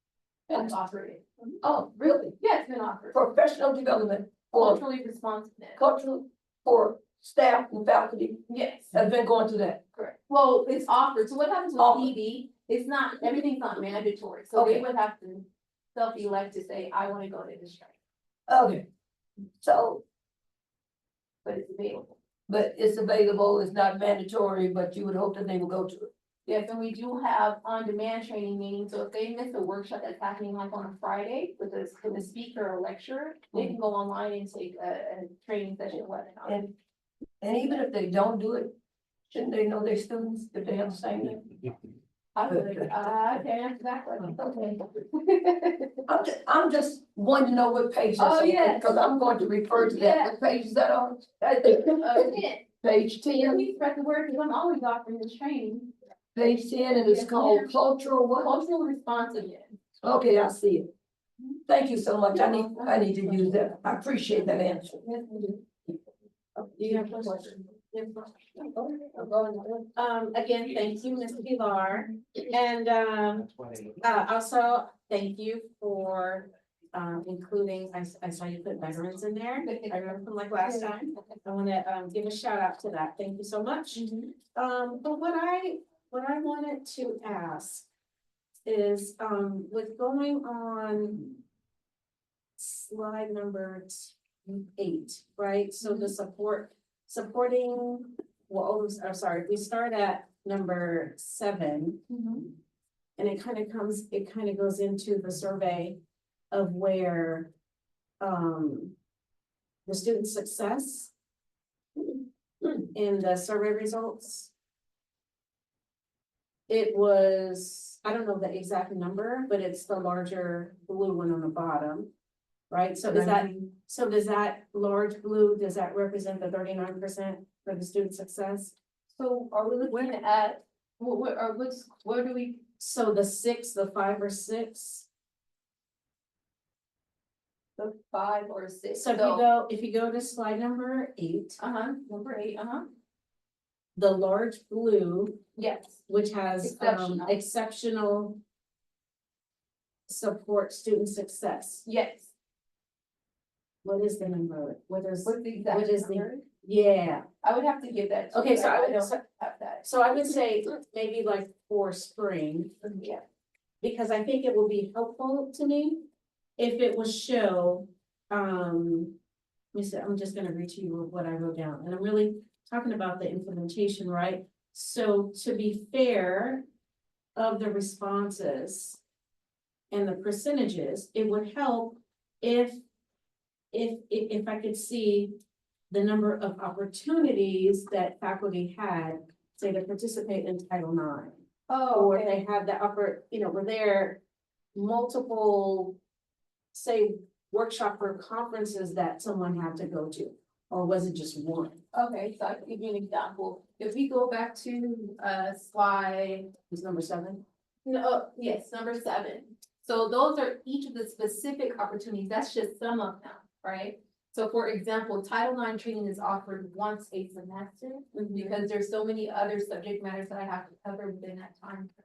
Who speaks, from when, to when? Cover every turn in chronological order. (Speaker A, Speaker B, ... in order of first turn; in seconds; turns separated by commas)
Speaker A: 0.5-1.6, Speaker B: 1.6-2.4, Speaker A: 2.4-3.2, Speaker B: 3.1-4.8, Speaker A: 4.6-5.8, Speaker B: 5.8-8.4, Speaker A: 8.5-8.9, Speaker B: 8.9-9.8, Speaker A: 9.9-17.9, Speaker B: 11.8-12.1, Speaker B: 14.5-14.8, Speaker B: 18.5-18.9, Speaker B: 19.6-20.0, Speaker A: 21.4-22.2, Speaker B: 22.5-26.1, Speaker A: 26.4-36.6, Speaker B: 36.4-36.7, Speaker B: 37.4-38.7, Speaker B: 39.3-41.5, Speaker A: 42.3-44.4, Speaker B: 44.3-44.8, Speaker A: 45.1-46.0, Speaker B: 46.1-53.6, Speaker A: 48.2-49.0, Speaker A: 49.8-50.3, Speaker A: 51.6-52.6, Speaker A: 53.4-55.9, Speaker B: 56.3-58.5, Speaker A: 56.9-57.7, Speaker A: 58.4-59.8, Speaker B: 60.0-60.9, Speaker B: 61.7-65.0, Speaker A: 62.3-63.7, Speaker A: 65.0-65.9, Speaker A: 66.6-67.6, Speaker C: 66.8-68.3, Speaker A: 68.6-69.9, Speaker C: 70.0-73.5, Speaker C: 74.0-87.9, Speaker A: 79.6-81.3, Speaker A: 83.9-84.3, Speaker C: 88.6-91.4, Speaker C: 92.6-102.0, Speaker A: 95.8-96.1, Speaker A: 102.1-102.5, Speaker C: 103.2-106.0, Speaker C: 106.5-107.5, Speaker C: 108.2-109.0, Speaker C: 109.8-111.1, Speaker C: 112.8-114.5, Speaker C: 116.7-122.1, Speaker C: 122.7-128.8, Speaker B: 123.1-123.5, Speaker A: 129.1-132.6, Speaker C: 129.8-130.1, Speaker C: 132.8-135.1, Speaker A: 137.8-139.4, Speaker C: 138.9-141.6, Speaker A: 141.6-142.9, Speaker C: 143.9-145.4, Speaker A: 145.6-146.0, Speaker C: 146.1-148.4, Speaker A: 146.6-147.3, Speaker C: 150.1-151.8, Speaker A: 151.8-152.3, Speaker C: 153.8-157.2, Speaker A: 155.2-156.4, Speaker A: 157.4-159.9, Speaker C: 158.3-159.2, Speaker C: 159.8-162.8, Speaker A: 162.8-163.2, Speaker C: 163.8-169.2, Speaker C: 169.7-176.6, Speaker C: 177.3-179.0, Speaker C: 179.9-182.8, Speaker C: 183.7-185.4, Speaker C: 185.9-194.2, Speaker A: 191.7-192.4, Speaker C: 194.7-196.0, Speaker C: 196.7-201.8, Speaker A: 201.9-206.5, Speaker C: 206.7-207.4, Speaker A: 207.8-221.9, Speaker C: 218.1-218.6